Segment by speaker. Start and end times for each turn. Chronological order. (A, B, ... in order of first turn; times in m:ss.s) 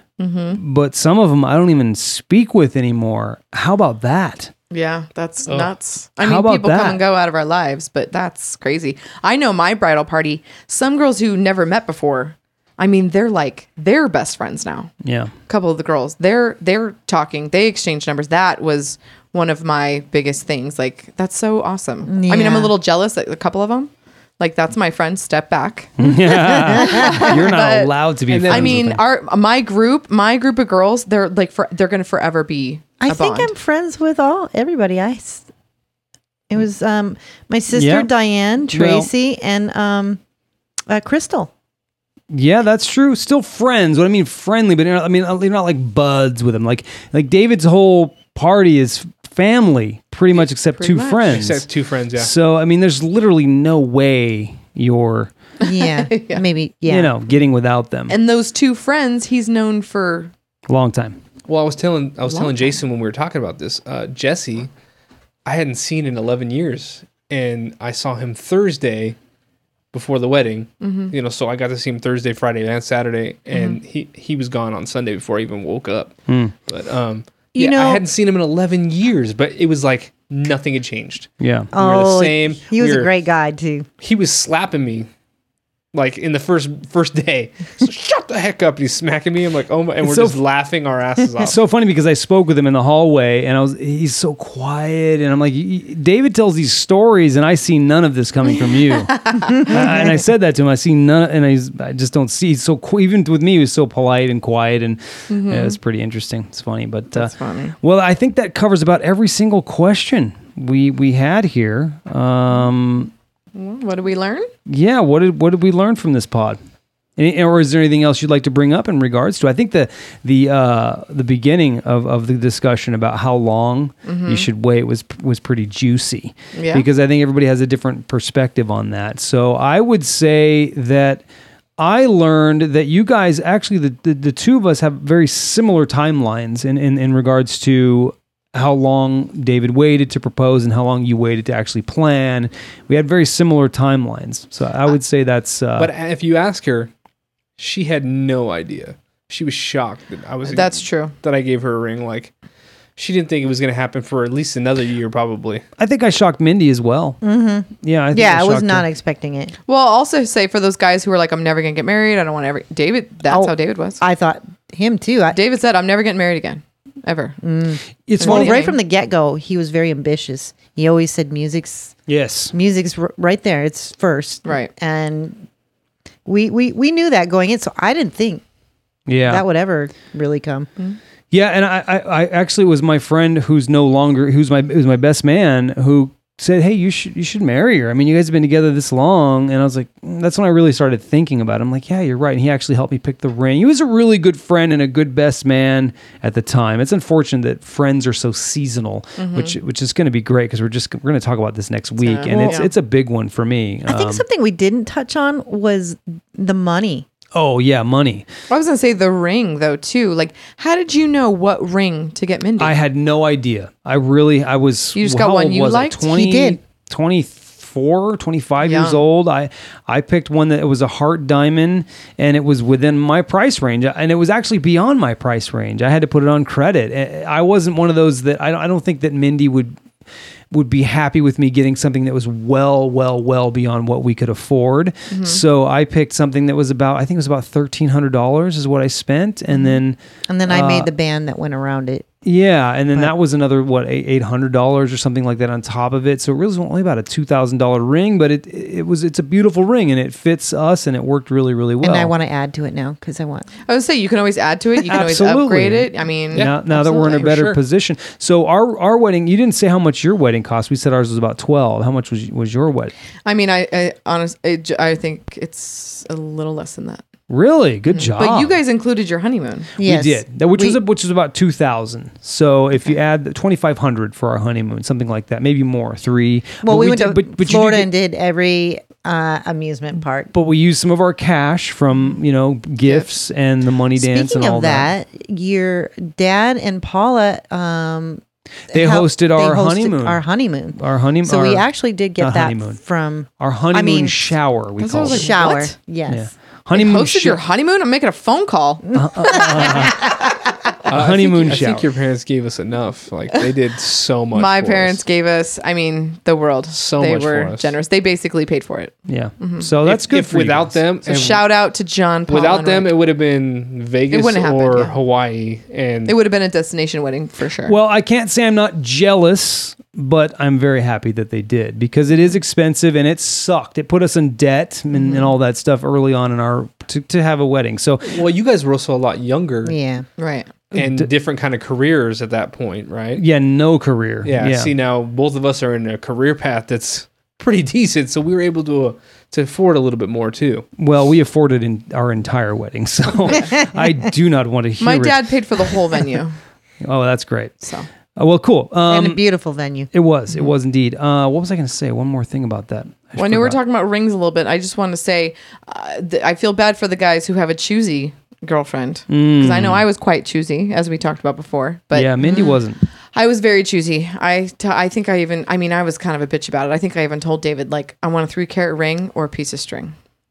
0:00.2-0:00.6 A
0:00.6-0:04.5 B
0:04.7-0:14.9 A
0:06.2-0:07.0 B
0:15.0-0:15.3 B
0:15.5-0:25.9 A
0:22.1-0:22.7 C
0:26.0-0:29.0 B
0:26.4-0:27.9 A
0:26.5-0:27.3 C
0:28.3-0:28.9 D
0:28.4-0:33.5 A
0:33.0-0:35.5 C
0:36.5-0:40.2 C
0:37.7-0:38.1 B
0:38.7-0:39.1 B
0:40.9-0:41.5 C
0:42.3-0:55.3 B
0:50.3-0:51.4 A
0:51.2-0:52.3 D
0:55.6-0:56.4 A
0:55.6-0:57.1 C
0:56.8-0:58.2 B
0:58.1-1:00.3 A
1:00.7-1:01.2 B
1:01.5-1:04.7 D
1:05.4-1:09.2 D
1:09.9-1:23.1 D
1:10.8-1:11.1 A
1:13.5-1:13.8 A
1:16.3-1:16.5 B
1:17.5-1:18.0 C
1:21.4-1:21.7 B
1:21.7-1:23.8 C
1:24.0-1:25.1 D
1:25.9-1:31.6 D
1:30.0-1:30.4 B
1:31.4-1:53.1 B
1:39.3-1:39.5 A
1:45.3-1:45.8 A
1:47.1-1:47.7 A
1:53.5-1:54.5 A
1:54.7-1:56.6 B
1:57.2-2:11.2 B
2:04.0-2:04.4 A
2:06.5-2:06.8 A
2:11.8-2:25.9 B
2:25.8-2:26.9 D
2:27.6-2:32.3 D
2:30.4-2:31.1 A
2:33.0-2:35.6 D
2:35.8-2:37.2 B
2:37.2-2:39.5 C
2:37.8-2:38.8 B
2:39.7-2:44.0 A
2:43.3-2:45.4 C
2:45.3-2:47.4 A
2:47.4-2:51.9 C
2:48.1-2:48.6 B
2:48.2-2:48.8 A
2:52.1-2:52.5 B
2:52.5-2:55.4 C
2:54.4-2:54.7 A
2:56.2-2:58.4 C
2:59.1-2:59.4 B
2:59.2-3:00.7 C
3:01.3-3:24.2 B
3:19.2-3:19.5 A
3:22.0-3:22.7 A
3:22.3-3:22.7 C
3:23.9-3:27.1 C
3:27.3-3:28.2 B
3:28.5-3:32.8 A
3:32.6-3:49.7 B
3:35.0-3:36.1 A
3:36.1-3:36.6 C
3:38.6-3:39.0 A
3:50.5-4:00.9 B
3:55.1-3:55.4 A
4:00.3-4:02.1 C
4:02.2-4:12.1 B
4:11.8-4:13.5 C
4:13.7-4:16.5 A
4:14.8-4:22.9 B
4:16.3-4:17.6 D
4:23.2-4:27.0 A
4:27.3-4:28.6 B
4:28.0-4:29.7 A
4:29.8-4:30.8 C
4:29.8-4:37.9 B
4:36.6-4:40.3 C
4:40.3-4:44.9 B
4:44.0-4:54.3 C
4:48.7-4:50.2 B
4:50.7-4:52.8 B
4:53.4-4:55.5 B
4:54.8-4:55.7 A
4:55.0-4:56.3 C
4:56.1-4:57.4 B
4:56.7-4:59.7 A
4:58.9-5:00.1 B
4:59.2-5:00.2 C
5:00.8-5:01.9 B
5:00.9-5:05.0 D
5:04.3-5:09.6 A
5:06.7-5:07.7 D
5:09.1-5:10.8 B
5:09.8-5:11.5 D
5:11.0-5:12.9 A
5:12.3-5:16.2 D
5:14.1-5:15.0 A
5:16.0-5:17.7 A
5:17.6-5:28.2 B
5:28.0-5:29.8 D
5:29.6-5:30.0 C
5:30.2-5:30.5 A
5:30.7-5:33.2 D
5:30.7-5:31.1 B
5:33.2-5:34.7 B
5:34.2-5:40.7 D
5:40.8-5:45.3 B
5:43.2-5:43.5 A
5:44.8-5:46.4 A
5:46.8-5:47.5 B
5:47.6-5:47.9 A
5:48.1-5:49.2 B
5:48.9-5:49.9 C
5:49.9-5:53.6 B
5:53.2-6:02.6 A
5:59.1-5:59.8 B
6:01.9-6:02.8 B
6:03.1-6:09.9 A